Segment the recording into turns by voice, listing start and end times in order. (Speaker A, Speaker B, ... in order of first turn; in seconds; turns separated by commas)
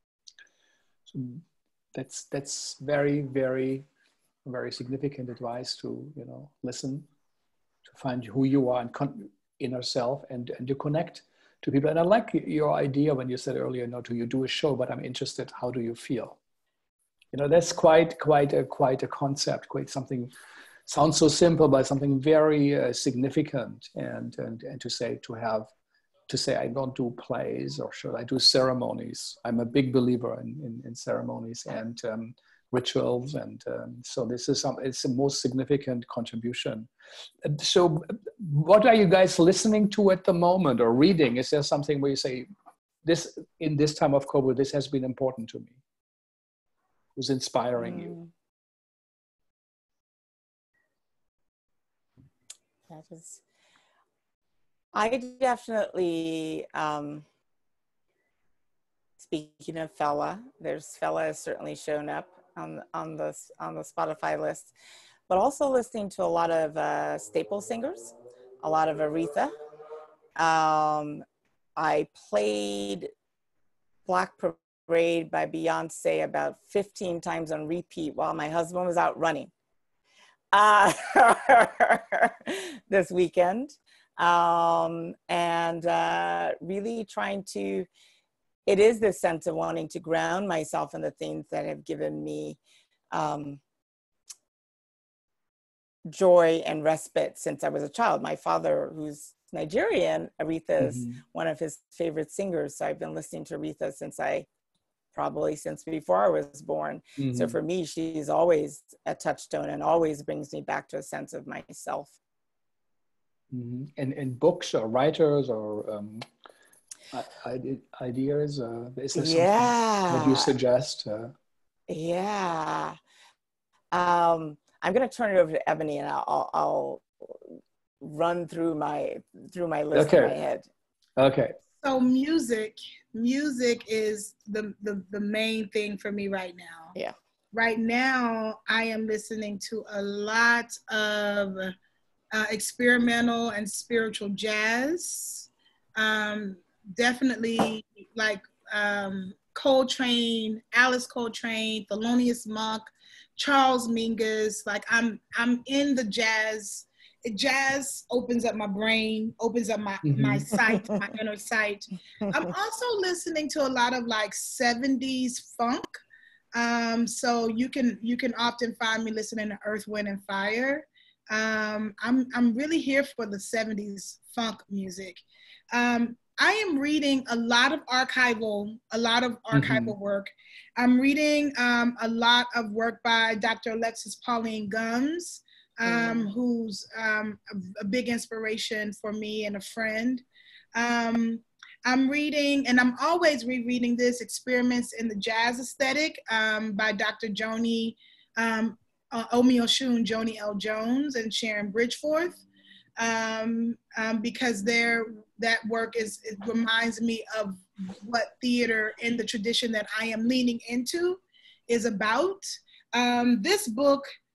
Speaker A: 1.1-3.9, Speaker A: 4.5-7.1, Speaker A: 7.9-16.4, Speaker A: 17.3-20.3, Speaker A: 20.9-25.7, Speaker A: 26.3-36.9, Speaker A: 37.4-42.5, Speaker A: 43.0-45.8, Speaker A: 47.2-48.1, Speaker B: 47.8-48.3, Speaker B: 52.9-53.4, Speaker B: 54.9-57.2, Speaker B: 59.2-64.7, Speaker B: 65.3-69.5, Speaker B: 70.4-71.2, Speaker B: 71.8-73.1, Speaker B: 74.1-79.5, Speaker B: 80.5-87.9, Speaker B: 88.7-92.6, Speaker B: 93.1-93.6, Speaker B: 96.1-104.5, Speaker A: 100.8-101.2, Speaker B: 105.1-112.1, Speaker A: 107.2-107.5, Speaker A: 113.5-116.3, Speaker A: 117.1-121.3, Speaker B: 119.2-120.5, Speaker B: 121.9-123.0, Speaker B: 123.9-127.3, Speaker B: 128.0-130.7, Speaker A: 129.9-130.4, Speaker A: 131.2-131.6, Speaker C: 131.8-136.9, Speaker C: 137.5-141.7, Speaker C: 142.3-166.0, Speaker A: 160.1-160.5, Speaker C: 166.6-190.2, Speaker A: 179.5-179.9, Speaker C: 190.8-202.4, Speaker C: 203.0-214.1